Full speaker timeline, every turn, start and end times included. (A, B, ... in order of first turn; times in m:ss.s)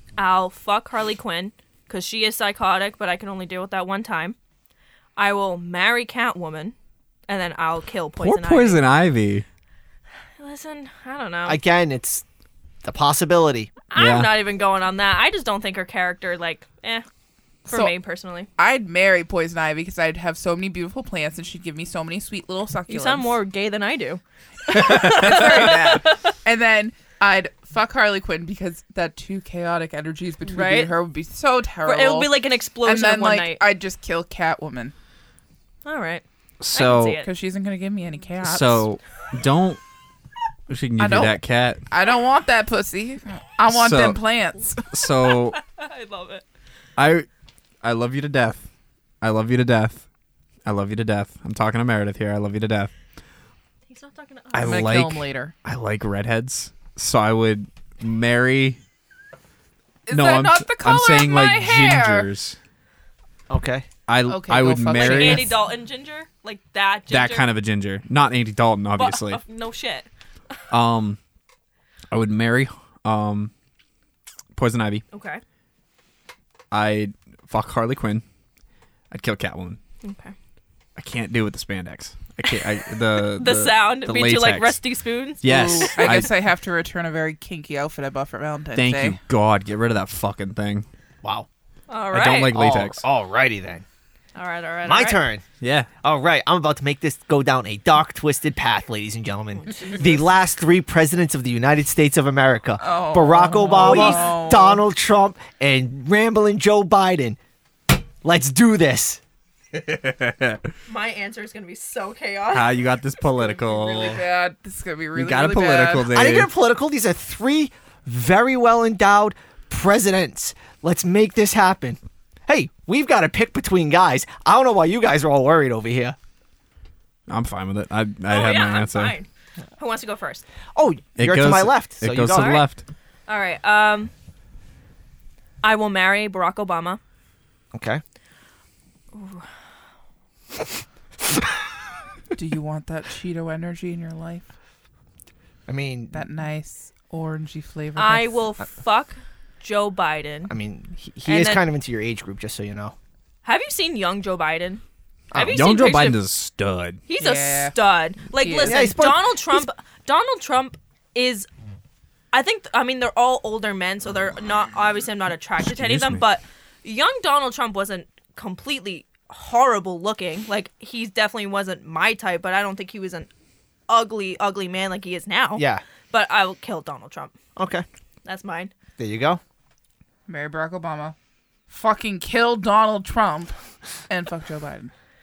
0:00.2-0:04.4 A
0:05.2-0:06.7 A
0:07.3-0:08.8 A
0:08.2-0:09.4 B
0:10.4-0:11.6 A
0:11.4-0:12.2 C
0:12.8-0:13.7 C
0:13.9-0:17.0 A
0:13.9-0:14.4 B
0:17.6-0:18.5 A
0:17.7-0:17.9 D
0:18.6-0:23.4 D
0:22.9-0:26.3 A
0:24.7-0:34.9 D
0:30.4-0:30.9 A
0:31.8-0:33.6 A
0:35.8-0:37.3 A
0:36.6-0:37.2 B
0:37.2-0:38.8 D
0:38.4-0:39.8 B
0:40.7-0:41.8 B
0:41.0-0:41.4 D
0:41.9-0:44.8 D
0:43.7-0:44.2 B
0:44.9-0:45.6 B
0:45.5-0:46.4 A
0:47.0-0:47.3 B
0:47.8-0:48.6 B
0:49.2-0:50.0 B
0:50.6-0:52.9 B
0:53.9-0:54.9 A
0:54.5-0:58.8 B
0:54.6-0:55.5 D
1:00.0-1:02.3 D
1:00.1-1:02.6 B
1:03.5-1:03.9 C
1:04.1-1:05.5 B
1:04.2-1:05.6 D
1:04.9-1:07.4 A
1:07.1-1:09.4 B
1:09.0-1:10.1 A
1:10.7-1:11.2 B
1:12.1-1:13.5 B
1:14.6-1:15.0 B
1:15.1-1:15.4 A
1:16.7-1:18.2 B
1:19.1-1:19.8 B
1:20.0-1:20.3 A
1:21.0-1:24.8 B
1:23.2-1:26.2 A
1:25.4-1:26.3 B
1:25.4-1:29.2 D
1:28.7-1:30.8 B
1:31.9-1:32.6 A
1:32.1-1:33.0 B
1:32.4-1:33.8 C
1:34.3-1:35.2 A
1:34.8-1:35.4 C
1:35.6-1:35.9 B
1:36.0-1:47.4 C
1:42.8-1:44.8 D
1:43.8-1:44.3 A
1:48.2-1:49.2 C
1:49.7-1:50.6 B
1:50.9-1:52.7 A
1:52.5-1:54.2 B
1:53.4-1:56.1 D
1:55.1-1:56.5 B
1:56.1-2:06.2 C
2:07.3-2:09.1 B
2:08.3-2:09.3 A
2:09.8-2:10.4 A
2:10.7-2:12.6 C
2:11.2-2:12.8 B
2:12.3-2:12.7 A
2:13.3-2:14.1 A
2:15.6-2:17.0 A
2:17.7-2:18.0 C
2:19.1-2:19.4 A
2:22.3-2:24.5 D
2:25.7-2:26.2 C
2:26.1-2:28.4 D
2:28.0-2:30.5 A
2:30.5-2:32.9 C
2:31.2-2:31.6 A
2:33.4-2:34.8 A
2:35.3-2:35.6 C
2:35.3-2:36.2 A
2:35.4-2:37.0 B
2:37.1-2:41.5 A
2:37.2-2:37.8 D
2:38.4-2:38.9 D
2:38.6-2:39.6 C
2:42.3-2:53.3 A
2:45.6-2:46.2 B
2:53.9-2:57.3 A
2:55.6-2:55.8 C
2:57.6-2:57.8 C
2:58.2-2:58.7 A
2:59.0-2:59.4 C
3:00.3-3:01.2 D
3:01.7-3:03.6 D
3:04.1-3:04.9 D